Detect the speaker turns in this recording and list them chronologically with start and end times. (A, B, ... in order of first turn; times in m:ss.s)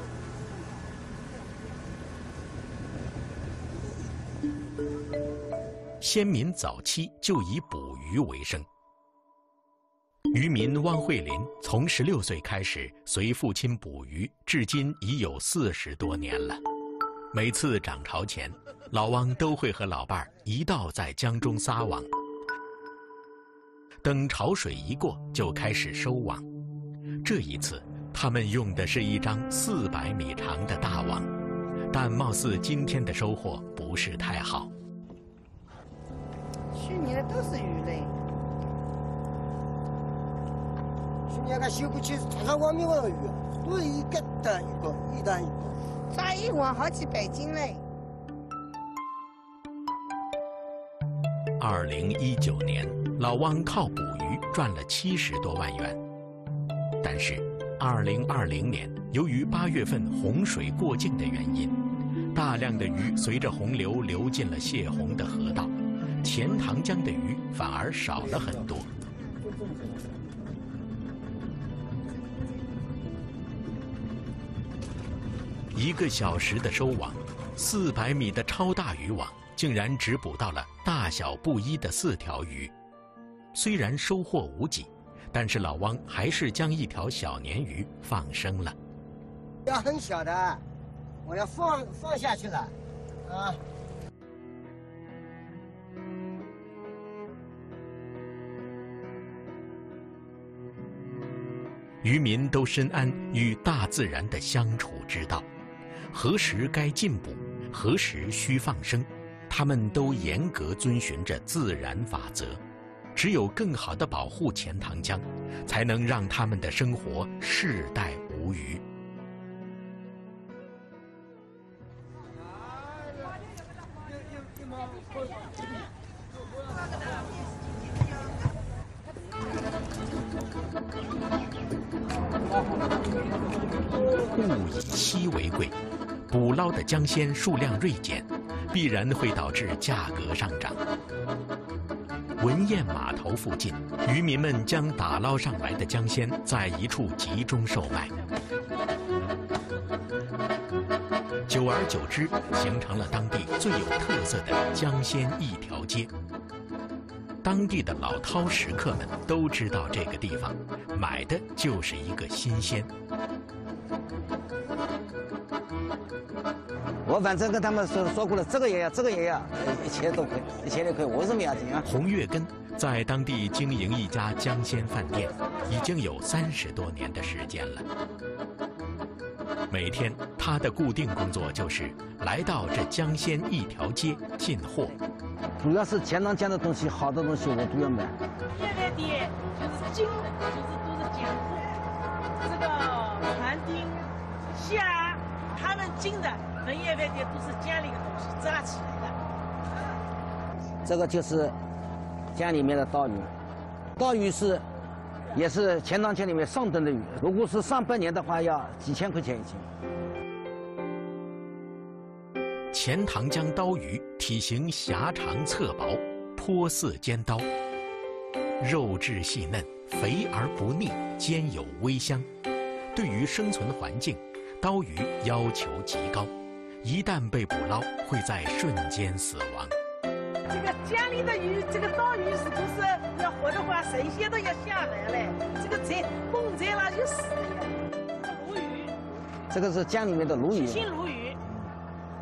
0:06.0-0:08.7 A
0:10.3-0:16.6 A
0:17.3-0:22.1 A
0:24.0-0:26.5 A
0:27.2-0:31.3 A
0:31.9-0:34.7 A
0:36.7-0:38.2 B
0:41.3-0:45.7 C
0:46.1-0:47.8 B
0:51.6-0:56.0 A
0:57.0-1:01.8 A
1:02.3-1:08.9 A
1:15.8-1:22.7 A
1:23.5-1:28.8 A
1:29.7-1:30.6 C
1:31.2-1:32.7 C
1:33.3-1:33.6 C
1:42.0-1:45.5 A
1:46.1-1:52.6 A
1:53.2-1:58.8 A
2:14.2-2:15.8 A
2:16.3-2:20.8 A
2:22.4-2:28.1 A
2:31.5-2:36.1 A
2:37.4-2:42.9 A
2:47.1-2:51.9 D
2:51.8-2:57.8 A
2:59.7-3:05.0 A
3:05.6-3:08.2 D
3:08.5-3:11.8 E
3:12.4-3:19.2 E
3:20.8-3:21.6 D
3:22.3-3:23.3 D
3:24.0-3:24.6 D
3:25.3-3:29.7 D
3:32.7-3:37.5 A
3:38.6-3:42.3 A
3:42.9-3:49.7 A
3:50.5-3:58.9 E
3:59.5-4:00.9 D
4:00.5-4:01.4 E